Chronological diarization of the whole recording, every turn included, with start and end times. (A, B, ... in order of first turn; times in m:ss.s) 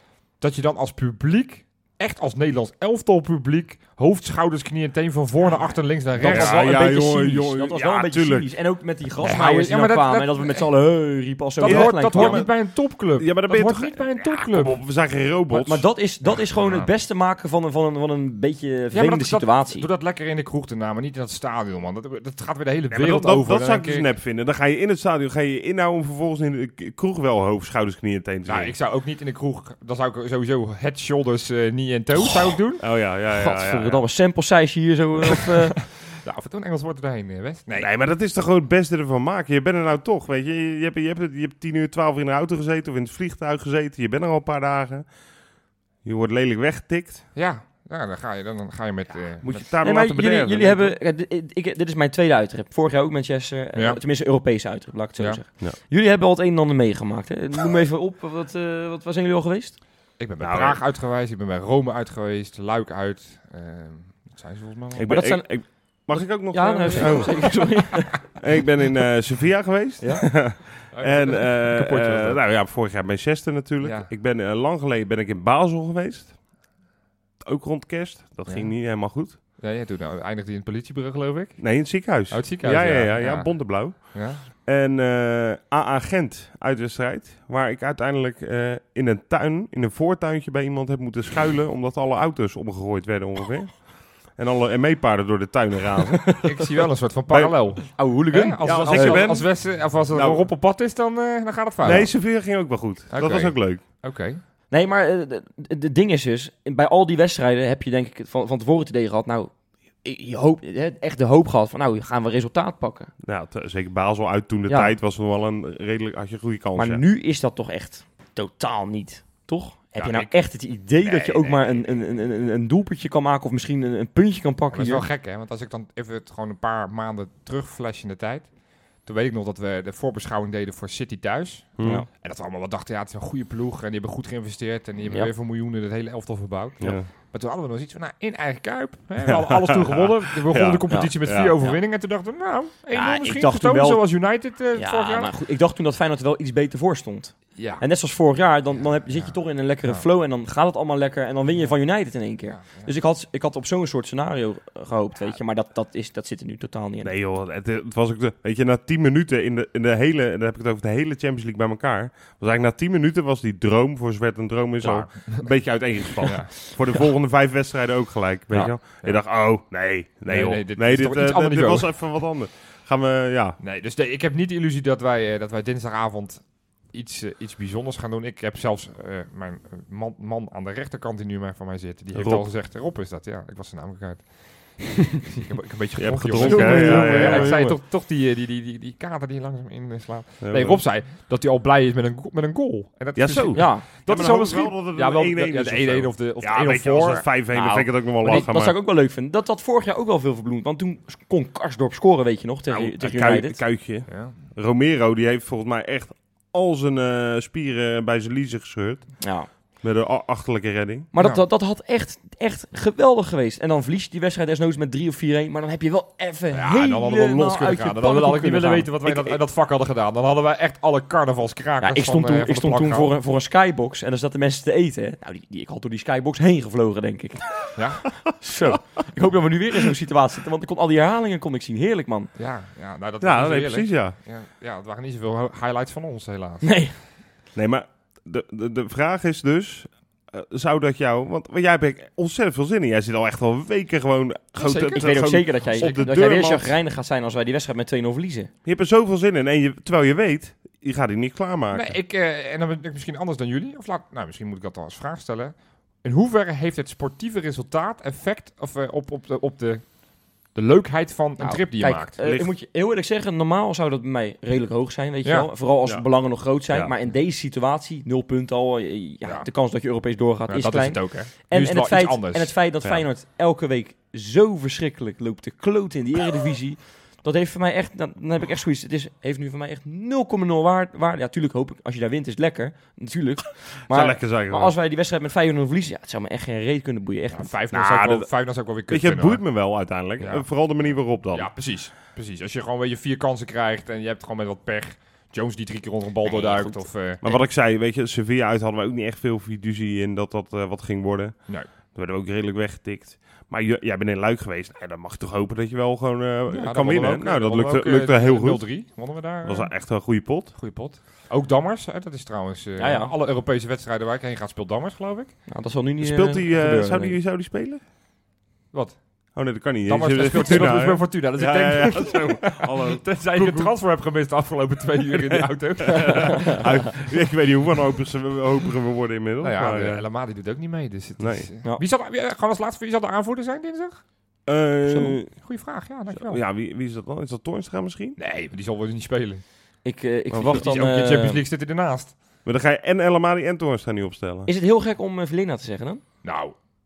0:00.4-0:06.6 A
0:06.2-0:12.4 B
0:06.2-0:08.5 C
0:09.2-0:10.7 A
0:11.6-0:14.8 A
0:11.6-0:15.9 C
0:15.5-0:19.9 B
0:18.9-0:24.1 A
0:22.9-0:28.7 C
0:28.4-0:32.8 A
0:32.8-0:34.0 C
0:33.3-0:35.8 B
0:36.1-0:37.9 A
0:37.8-0:45.1 C
0:46.0-0:47.2 C
0:47.3-0:49.6 A
0:49.4-0:51.0 C
0:49.8-0:59.8 B
0:53.7-0:54.0 A
1:00.2-1:05.2 A
1:00.4-1:00.8 C
1:05.0-1:16.4 C
1:05.0-1:08.2 B
1:10.0-1:10.3 B
1:10.9-1:12.3 A
1:13.8-1:14.1 A
1:17.4-1:19.4 C
1:18.4-1:18.7 A
1:19.5-1:24.4 A
1:21.6-1:36.5 C
1:36.4-1:42.1 A
1:37.3-1:37.9 C
1:37.9-1:39.3 B
1:38.6-1:40.4 C
1:41.8-1:43.8 C
1:43.1-1:44.4 A
1:44.7-1:53.1 B
1:53.2-1:57.0 C
1:54.7-1:54.9 B
1:56.7-2:05.0 B
2:00.0-2:00.3 A
2:01.0-2:02.0 A
2:04.7-2:08.5 A
2:09.0-2:25.3 A
2:11.8-2:12.0 C
2:11.8-2:12.1 B
2:16.8-2:17.1 C
2:19.3-2:21.6 C
2:20.9-2:21.7 B
2:22.9-2:24.0 B
2:24.7-2:37.1 B
2:27.6-2:27.8 A
2:29.0-2:30.0 A
2:32.4-2:32.9 A
2:37.0-2:53.6 C
2:44.8-2:45.5 A
2:46.2-2:46.5 A
2:48.6-2:49.2 A
2:50.3-2:51.9 A
2:53.6-3:17.2 A
3:02.1-3:02.5 C
3:06.0-3:07.7 C
3:06.4-3:07.8 B
3:10.4-3:10.8 C
3:13.2-3:18.8 C
3:13.5-3:13.9 B
3:17.5-3:23.6 B
3:22.7-3:29.2 C
3:24.1-3:24.3 A
3:29.2-3:29.5 B
3:29.8-3:31.1 C
3:31.1-3:39.4 B
3:31.2-3:31.4 A
3:36.5-3:43.1 A
3:41.8-3:52.3 B
3:47.8-3:48.2 A
3:52.4-3:56.8 A
3:53.2-3:54.1 C
3:56.6-3:57.0 B
3:57.5-4:06.8 C
4:04.6-4:05.9 A
4:04.9-4:08.5 B
4:08.6-4:11.9 C
4:11.7-4:19.8 A
4:20.5-4:22.2 A
4:21.4-4:47.5 B
4:22.2-4:22.5 C
4:25.2-4:25.5 A
4:25.8-4:26.9 C
4:30.5-4:32.5 A
4:43.9-4:44.7 C
4:47.3-4:49.4 A
4:47.7-4:48.3 C
4:48.9-4:51.5 C
4:50.2-4:57.2 A
4:56.2-4:57.4 B
4:57.2-5:01.4 C
5:01.9-5:08.7 C
5:06.5-5:09.7 A
5:09.4-5:10.5 C
5:10.5-5:15.3 A
5:12.8-5:13.1 B
5:15.5-5:17.2 B
5:16.0-5:17.8 C
5:18.7-5:19.0 A
5:19.3-5:23.7 C
5:19.8-5:26.7 A
5:25.1-5:30.0 C
5:29.4-5:34.0 A
5:31.2-5:31.5 C
5:34.4-5:35.4 C
5:34.9-5:35.2 B
5:35.3-5:36.4 A
5:36.1-5:38.2 C
5:38.2-5:39.4 A
5:39.8-5:41.4 B
5:40.3-5:42.2 A
5:42.4-5:44.5 C
5:44.4-5:46.0 B
5:46.2-5:46.6 A